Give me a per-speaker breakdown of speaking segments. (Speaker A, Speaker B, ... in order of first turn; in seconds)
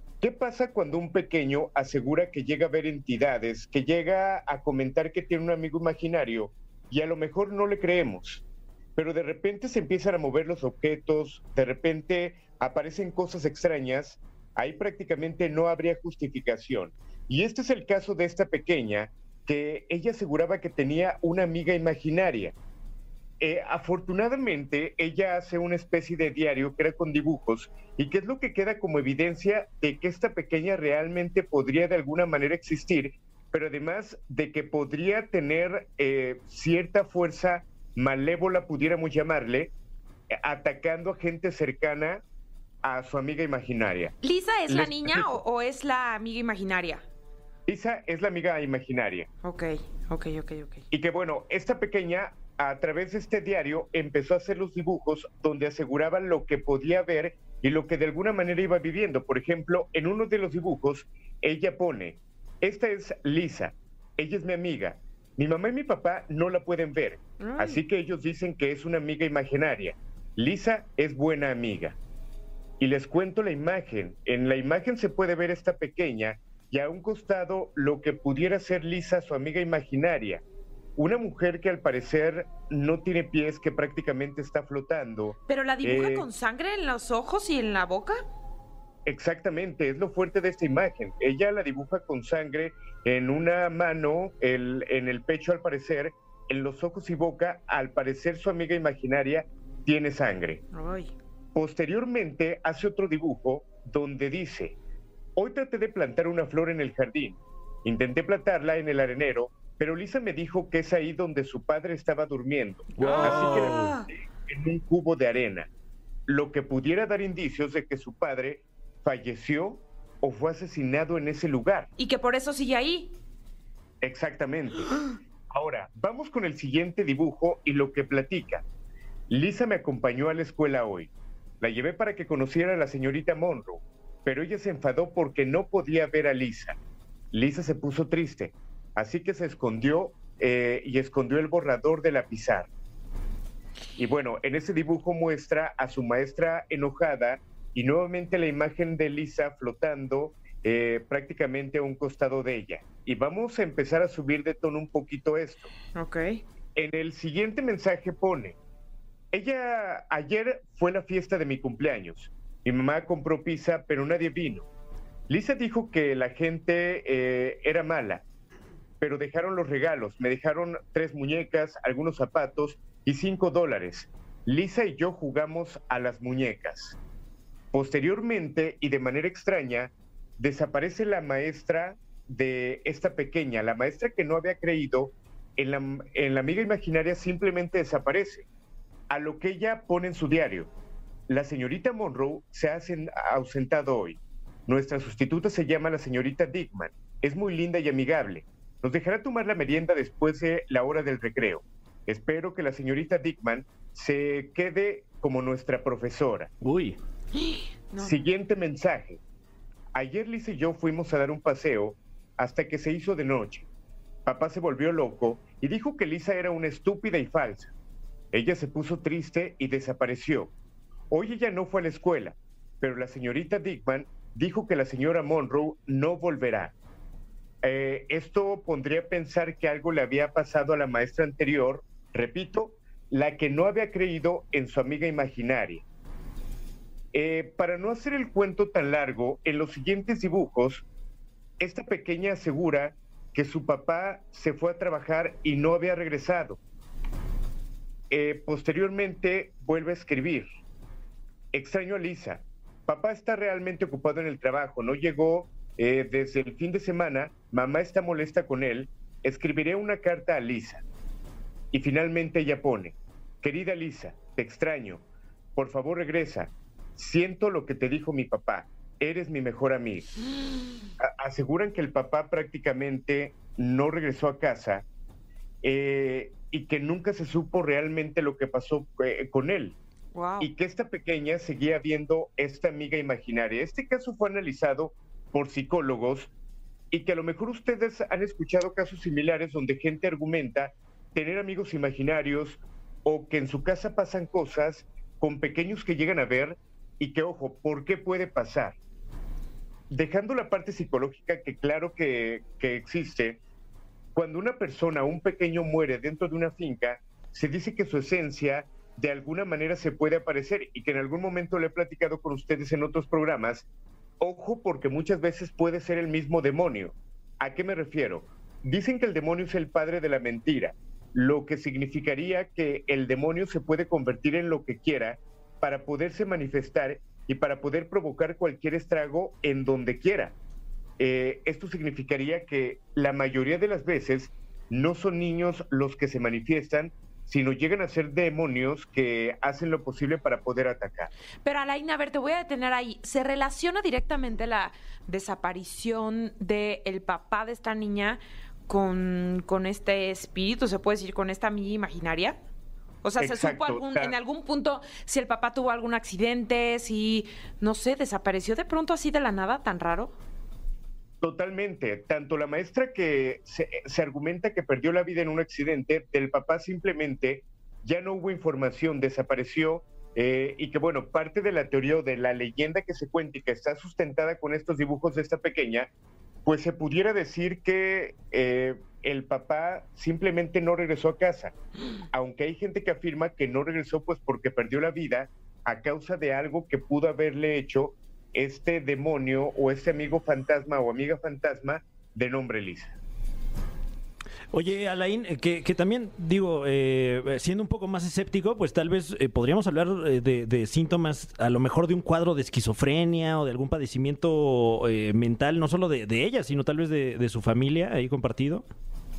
Speaker A: 0.2-8.4, 8.9-22.5, 23.4-39.7, 40.3-42.2, 42.8-44.1, 44.7-45.4, 47.7-49.3, 50.9-72.0, 72.8-80.4, 81.0-86.3, 89.0-100.6, 101.5-104.8, 105.3-115.7, 116.3-121.9, 124.0-128.6, 129.3-136.8, 137.3-142.7, 144.0-155.7, 156.8-158.6, 159.3-164.7, 165.3-168.2, 169.0-177.0, 177.7-188.5, 189.1-190.7, 191.3-206.5, 208.0-209.2, 209.9-213.7, 214.2-217.7, 218.3-220.5, 221.1-226.7, 227.6-235.8, 237.1-240.8, 241.6-246.6, 248.1-250.5, 251.5-260.8, 261.7-265.0, 265.6-270.1, 271.0-274.8, 275.6-279.8, 280.4-286.3, 286.9-298.8, 299.9-303.4, 304.1-313.6, 314.2-330.4, 331.0-341.1, 353.2-354.1, 361.2-375.9, 376.4-381.5, 382.1-392.9
Speaker B: 44.2-47.0, 49.4-50.8, 67.4-67.8, 85.5-88.2, 100.7-101.1, 113.0-114.1, 122.0-123.1, 155.9-156.4, 207.3-208.3, 280.1-280.5, 341.4-352.4, 353.0-360.1
Speaker C: 113.0-113.9, 206.6-207.0, 394.5-408.6